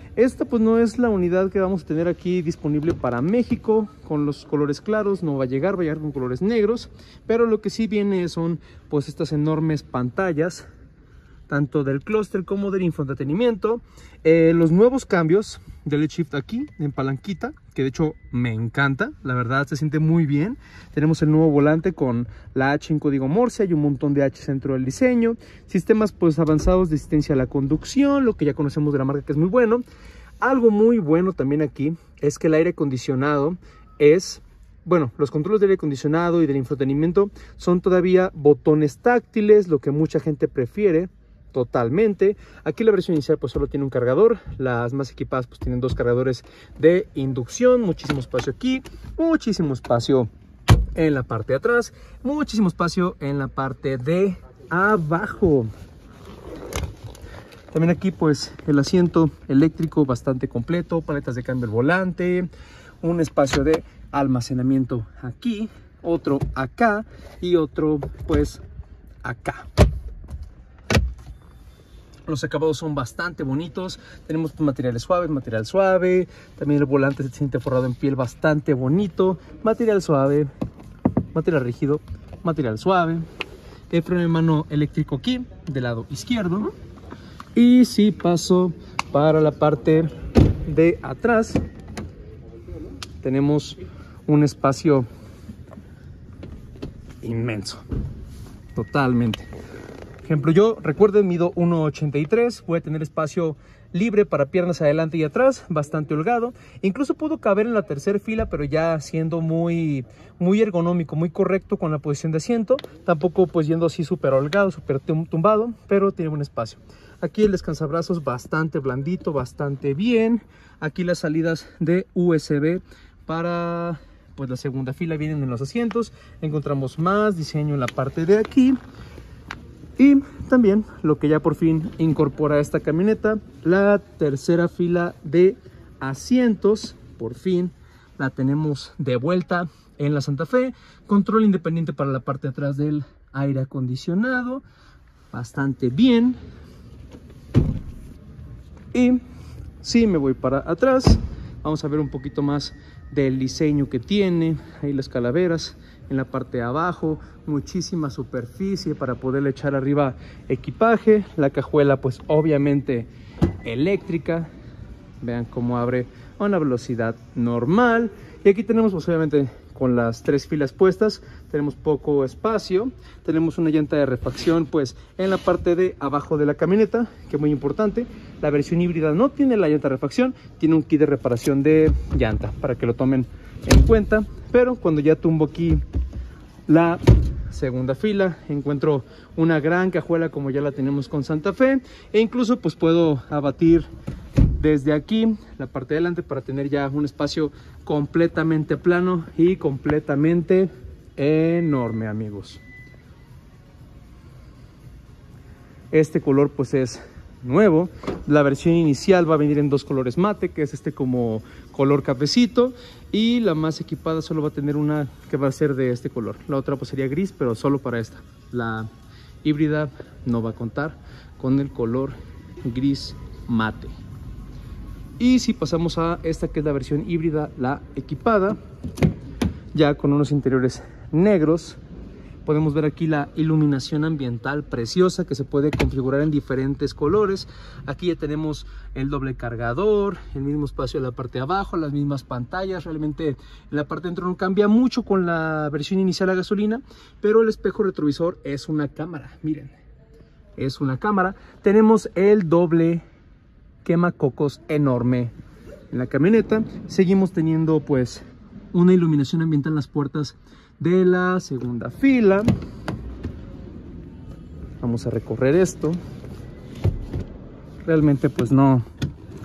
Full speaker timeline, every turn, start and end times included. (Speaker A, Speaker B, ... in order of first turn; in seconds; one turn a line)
Speaker A: 0.1-10.6
Speaker A: 11.5-29.8
Speaker A: 30.4-50.3
Speaker A: 50.9-55.7
Speaker A: 57.7-62.5
Speaker A: 63.0-68.6
Speaker A: 69.2-69.7
Speaker A: 72.3-80.5
Speaker A: 81.3-83.2
Speaker A: 83.9-86.7
Speaker A: 87.5-90.1
Speaker A: 90.6-91.6
Speaker A: 93.2-95.0
Speaker A: 97.2-97.8
Speaker A: 98.7-99.5
Speaker A: 100.2-128.8
Speaker A: 130.0-144.6
Speaker A: 145.3-146.4
Speaker A: 148.9-149.2
Speaker A: 149.8-163.1
Speaker A: 163.6-164.5
Speaker A: 165.2-185.8
Speaker A: 186.7-193.9
Speaker A: 194.5-202.6
Speaker A: 205.9-218.9
Speaker A: 219.4-223.9
Speaker A: 225.2-228.6
Speaker A: 229.7-231.8
Speaker A: 232.4-249.8
Speaker A: 250.6-253.0
Speaker A: 253.8-255.3
Speaker A: 255.9-262.5
Speaker A: 264.8-266.0
Speaker A: 267.8-268.8